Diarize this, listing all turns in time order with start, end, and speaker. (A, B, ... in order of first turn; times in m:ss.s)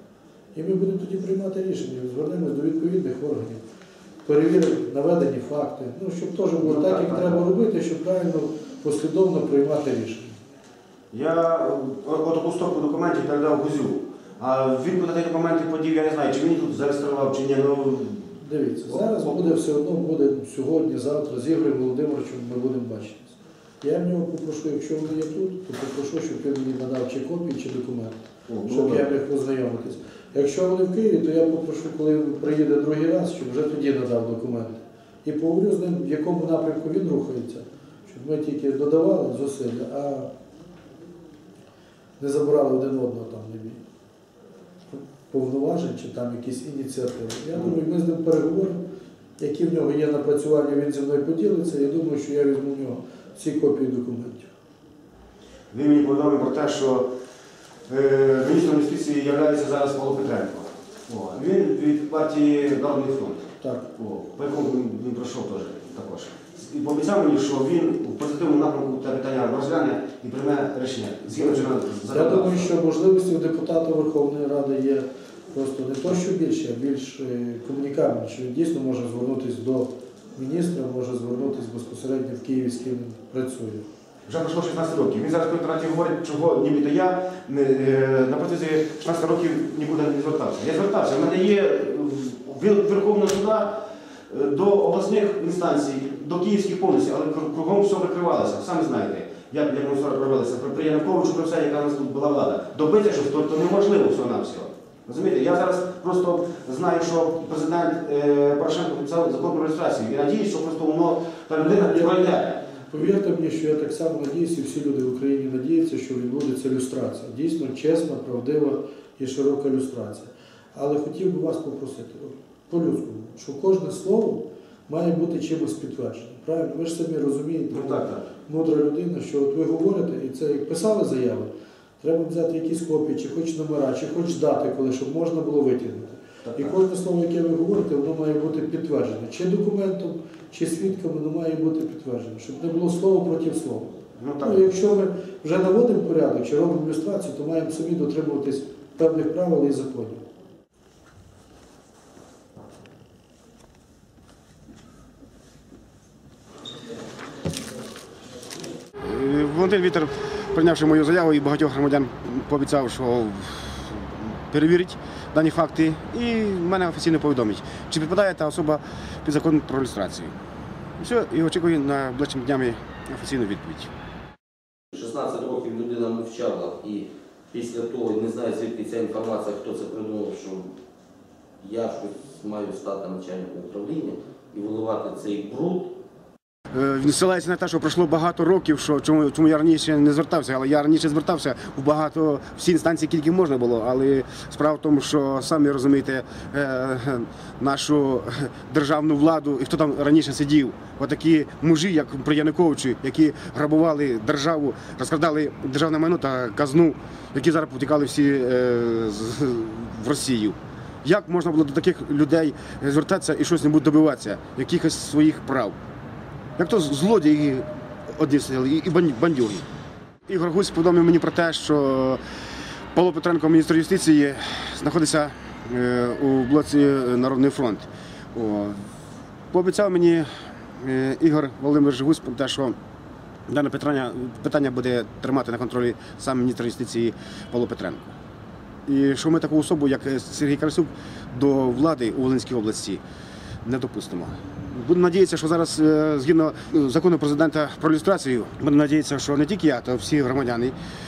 0:00.5-0:03.6 A
0:04.2-0:10.3 A
0:06.6-0:07.4 B
0:11.1-0:18.4 B
0:18.4-0:40.3 A
0:18.9-0:19.6 B
0:28.5-0:29.1 B
0:42.2-0:43.8 A
0:44.9-0:48.8 A
0:49.4-0:54.5 A
0:55.7-0:57.0 B
0:57.9-1:12.7 B
1:03.6-1:03.9 A
1:11.3-1:23.9 A
1:24.3-1:52.8 B
1:51.6-2:30.2 A
2:07.7-2:08.2 B
2:16.4-2:16.8 B
2:24.2-2:24.6 B
2:39.0-2:50.3 B
2:51.0-2:53.9 B
2:54.9-3:00.7 C
3:01.6-3:05.9 C
3:06.7-3:35.8 B
3:36.6-3:39.6 B
3:40.3-3:42.2 B
3:42.9-3:48.8 B
3:49.5-3:50.3 B
3:50.8-3:52.8 B
3:53.5-3:58.1 B
3:58.9-4:03.0 B
4:03.6-4:10.7 B